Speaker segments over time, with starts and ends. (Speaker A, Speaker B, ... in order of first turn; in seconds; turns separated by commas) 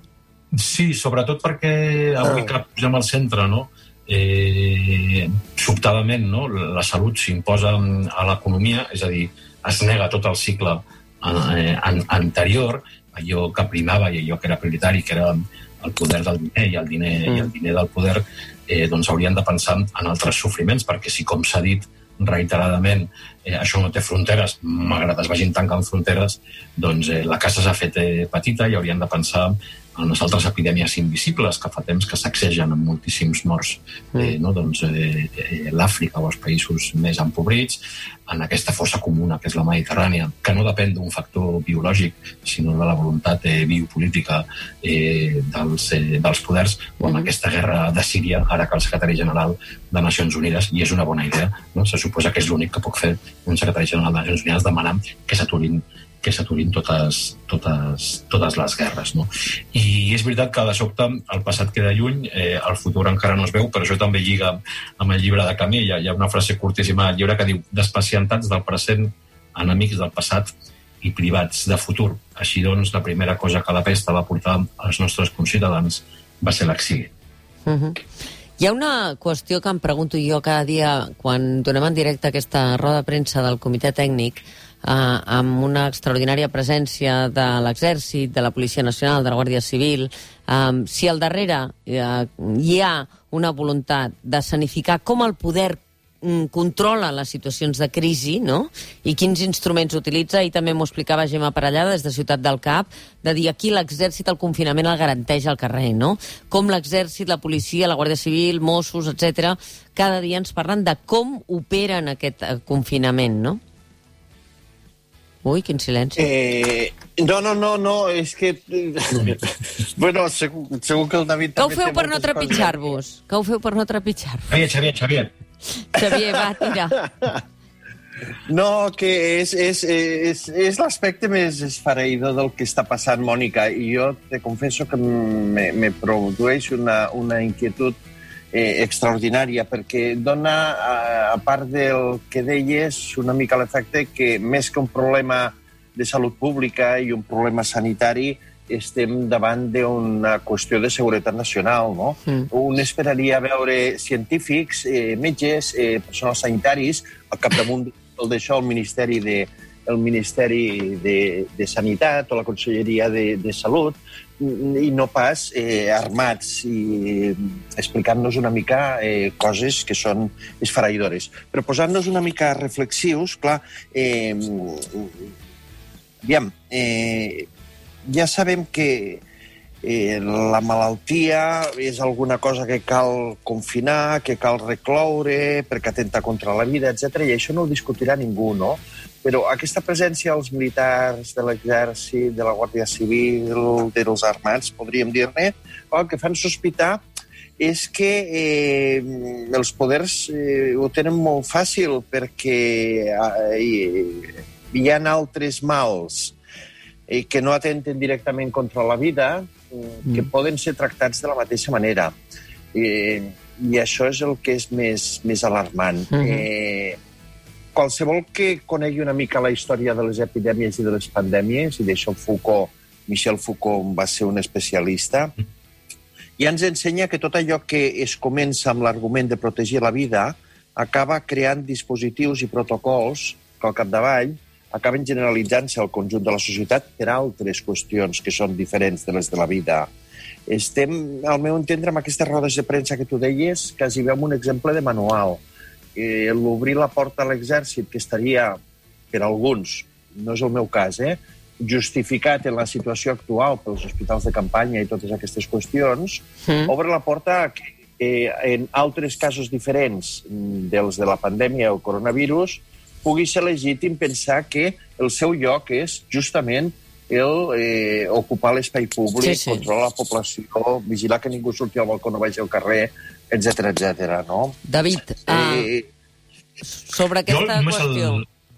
Speaker A: 0.5-70.5, Speaker B: 47.0-47.3, Speaker A: 71.0-77.1, Speaker B: 77.7-78.0, Speaker B: 78.6-113.6, Speaker B: 115.4-116.2, Speaker C: 116.2-122.8, Speaker B: 121.6-124.5, Speaker A: 124.5-125.3, Speaker B: 125.8-127.0, Speaker C: 126.0-126.3, Speaker C: 128.5-138.0, Speaker C: 138.5-175.2, Speaker C: 176.2-177.5, Speaker C: 178.0-179.2, Speaker C: 179.8-197.0, Speaker C: 197.6-206.3, Speaker C: 207.1-212.1, Speaker C: 212.7-217.0, Speaker B: 216.1-216.4, Speaker C: 217.7-225.3, Speaker C: 226.4-239.9, Speaker C: 240.5-245.4, Speaker C: 245.9-248.6, Speaker C: 249.1-274.6, Speaker B: 256.5-256.7, Speaker B: 269.2-269.6, Speaker B: 274.7-275.7, Speaker C: 275.3-275.9, Speaker B: 276.6-278.2, Speaker A: 277.3-278.2